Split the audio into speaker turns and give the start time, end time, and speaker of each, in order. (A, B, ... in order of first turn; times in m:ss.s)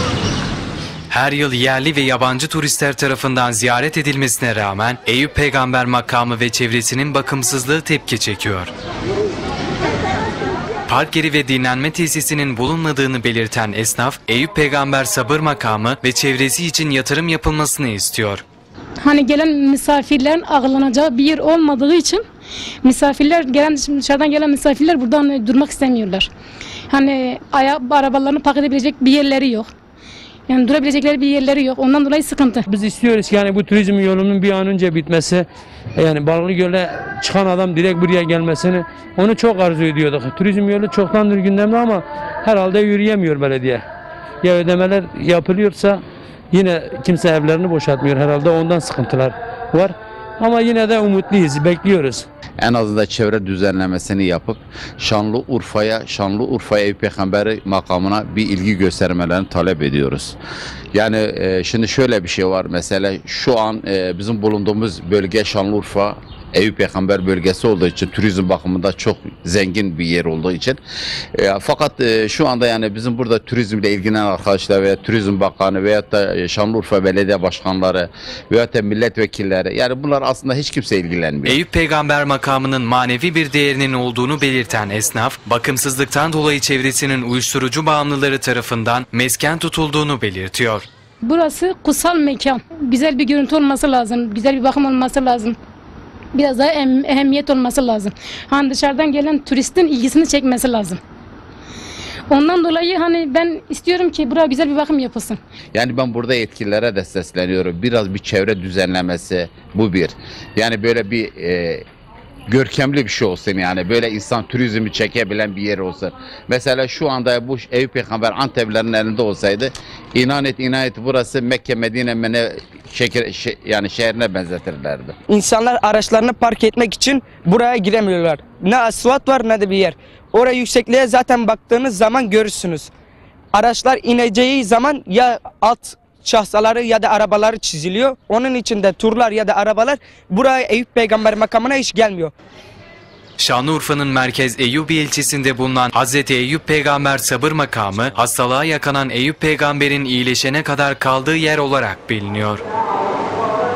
0:01.1-0:08.7 A
0:10.9-0:18.4 A
0:19.0-0:22.2 B
0:22.8-0:26.3 B
0:26.9-0:29.7 B
0:30.5-0:32.7 B
0:32.7-0:43.8 C
0:44.4-0:52.3 C
0:52.6-1:00.4 D
1:01.0-1:10.8 D
1:11.4-1:21.6 D
1:21.5-1:30.9 A
1:31.2-1:35.6 B
1:36.4-1:41.0 B
1:42.3-1:45.4 B
1:45.7-1:51.8 D
1:52.5-2:05.2 D
2:05.3-2:12.9 E
2:13.5-2:22.3 E
2:23.4-2:32.6 A